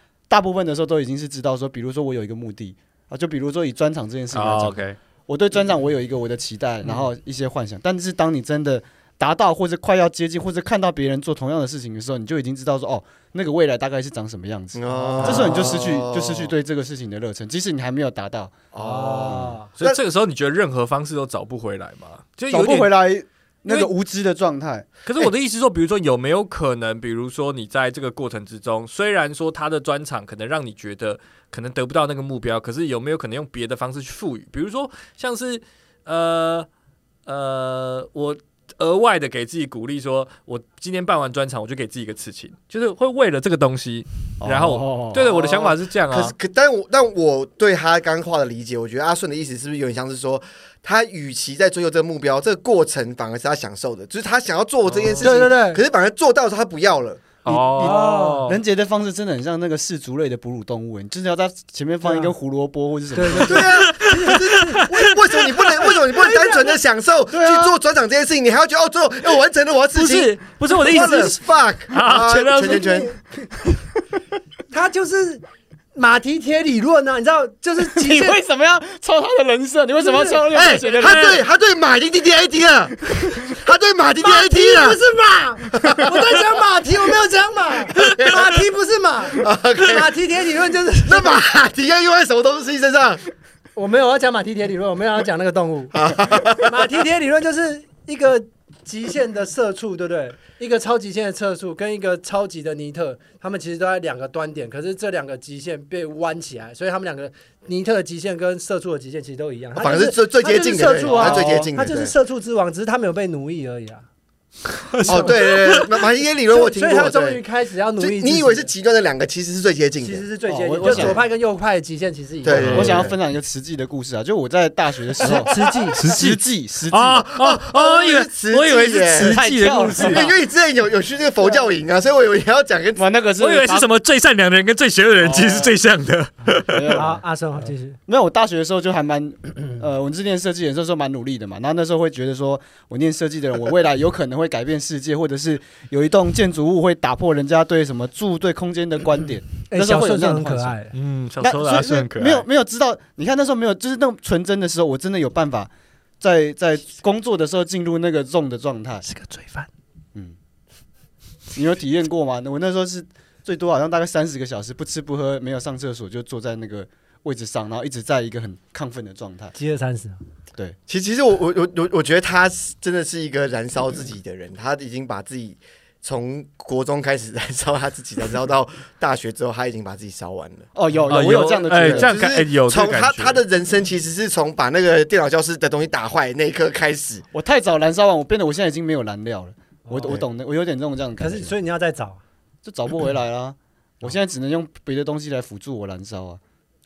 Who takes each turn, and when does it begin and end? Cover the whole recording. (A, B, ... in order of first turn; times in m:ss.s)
0:00.3-0:19.5 A
0:04.3-0:05.0 B
0:14.8-0:16.6 C
0:14.9-0:15.8 D
0:18.7-0:20.0 C
0:18.8-0:19.7 D
0:19.8-0:22.9 B
0:22.5-0:24.9 A
0:23.6-0:23.9 B
0:25.0-0:36.7 B
0:37.3-0:46.3 B
0:44.4-0:45.7 A
0:46.1-0:57.4 C
0:55.0-0:55.2 B
0:55.2-0:55.8 D
0:57.4-0:58.6 B
0:57.5-1:03.7 A
0:57.8-0:58.4 D
1:02.0-1:02.3 D
1:03.1-1:04.9 D
1:03.4-1:13.1 C
1:03.6-1:05.9 B
1:06.1-1:06.8 D
1:07.3-1:07.8 A
1:09.9-1:13.0 B
1:12.8-1:13.5 D
1:14.7-1:15.4 D
1:15.9-1:18.4 D
1:17.8-1:21.4 A
1:20.0-1:20.4 D
1:20.5-1:25.0 C
1:20.9-1:21.4 B
1:24.2-1:31.4 D
1:25.7-1:26.4 C
1:28.0-1:28.5 C
1:29.3-1:30.2 C
1:31.0-1:33.2 C
1:33.8-1:36.0 D
1:35.9-1:36.8 C
1:36.5-1:54.1 D
1:49.8-1:52.1 C
1:51.0-1:51.7 A
1:54.9-1:55.9 B
1:55.0-1:55.5 D
1:55.0-1:57.4 C
1:56.5-1:58.7 D
1:58.0-2:00.2 C
2:00.0-2:03.0 D
2:00.5-2:01.2 A
2:00.8-2:01.2 C
2:02.4-2:03.2 C
2:02.5-2:03.0 B
2:02.6-2:07.2 A
2:05.2-2:06.0 D
2:06.0-2:10.3 B
2:07.2-2:09.4 C
2:09.2-2:10.3 A
2:10.0-2:13.0 C
2:13.0-2:13.9 A
2:13.4-2:17.0 B
2:15.2-2:15.8 A
2:16.7-2:17.2 A
2:16.9-2:18.0 D
2:18.1-2:30.8 A
2:29.7-2:30.9 D
2:30.9-2:32.5 B
2:31.4-2:35.7 A
2:36.2-2:39.0 A
2:39.0-2:39.7 D
2:41.5-2:49.6 A
2:49.6-2:50.2 D
2:50.9-3:00.7 C
3:00.8-3:02.1 A
3:01.1-3:03.4 B
3:01.8-3:07.2 C
3:07.3-3:11.5 A
3:09.9-3:10.2 D
3:11.2-3:12.2 D
3:12.6-3:16.4 A